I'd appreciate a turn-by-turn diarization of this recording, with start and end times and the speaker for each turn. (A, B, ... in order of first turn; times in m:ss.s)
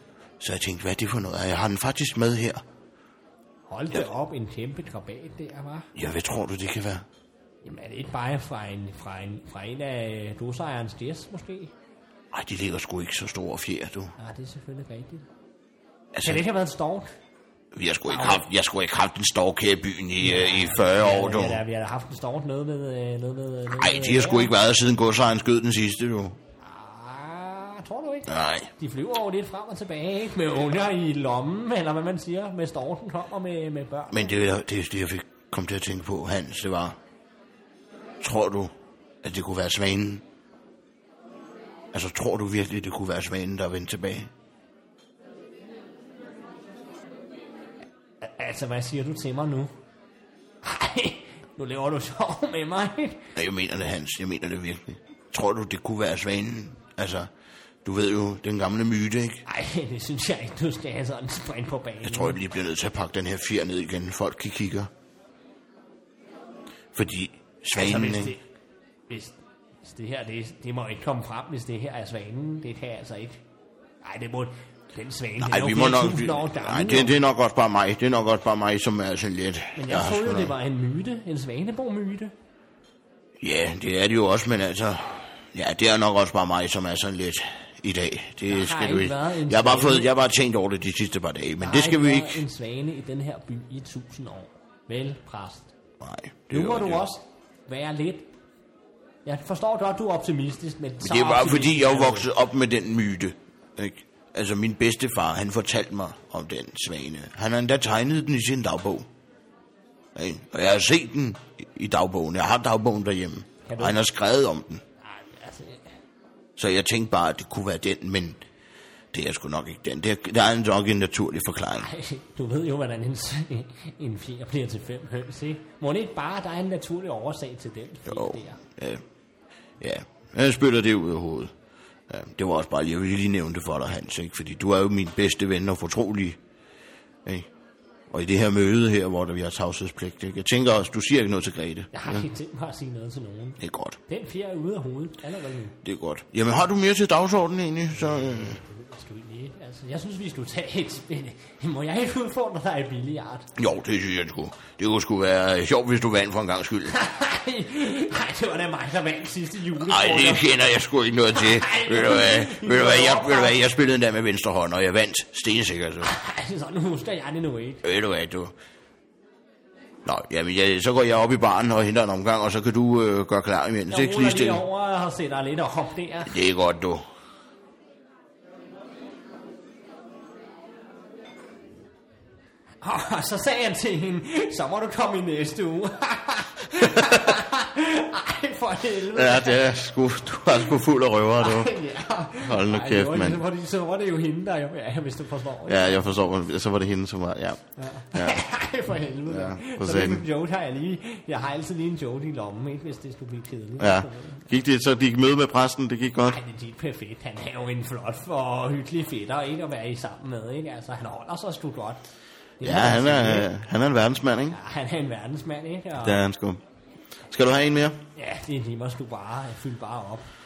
0:00.4-0:02.6 A
0:03.7-0:05.9 B
0:05.9-0:07.0 A
0:07.6-0:11.7 B
0:12.3-0:14.1 A
0:14.2-0:15.3 B
0:16.1-0:16.4 A
0:16.2-0:17.1 B
0:17.7-0:21.6 A
0:18.1-0:18.4 B
0:20.2-0:24.5 B
0:23.7-0:26.4 A
0:26.6-0:34.3 B
0:28.3-0:28.7 A
0:34.1-0:37.0 A
0:38.2-0:38.7 A
0:39.2-0:40.2 A
0:41.9-0:44.3 A
0:48.2-0:49.7 B
0:50.6-0:53.3 B
0:53.3-0:57.3 A
0:57.8-0:59.4 A
0:59.4-1:02.4 B
1:02.0-1:04.9 A
1:06.9-1:08.3 A
1:07.7-1:08.4 B
1:09.1-1:13.4 B
1:14.0-1:17.2 B
1:15.4-1:20.5 A
1:19.7-1:22.3 B
1:23.4-1:32.4 A
1:28.5-1:30.1 B
1:31.6-1:35.7 B
1:36.0-1:37.0 A
1:36.5-1:38.3 B
1:39.2-1:42.3 B
1:41.0-1:49.0 A
1:50.1-1:54.8 A
1:53.7-1:54.0 B
1:55.0-1:55.8 B
1:56.6-1:58.4 A
1:59.1-2:01.9 A
2:01.8-2:08.6 B
2:08.1-2:09.0 A
2:09.8-2:11.5 A
2:12.1-2:16.4 A
2:18.1-2:22.2 A
2:21.9-2:25.8 B
2:23.6-2:24.0 A
2:25.8-2:28.6 A
2:27.9-2:33.5 B
2:33.5-2:36.9 A
2:36.9-2:40.5 B
2:39.8-2:46.1 A
2:41.3-2:43.6 B
2:46.0-2:47.8 B
2:47.8-2:48.5 A
2:50.0-2:54.6 A
2:53.9-2:56.3 B
2:56.2-2:57.0 A
3:02.8-3:09.7 B
3:09.1-3:11.7 A
3:11.4-3:16.1 B
3:12.4-3:13.4 A
3:15.7-3:17.6 A
3:17.8-3:24.5 B
3:18.1-3:18.4 A
3:19.2-3:20.2 A
3:23.8-3:26.4 A
3:26.2-3:32.0 B
3:32.6-3:33.5 B
3:32.6-3:34.6 A
3:34.5-3:36.2 B
3:36.0-3:36.6 A
3:37.3-3:38.0 A
3:38.2-3:40.2 B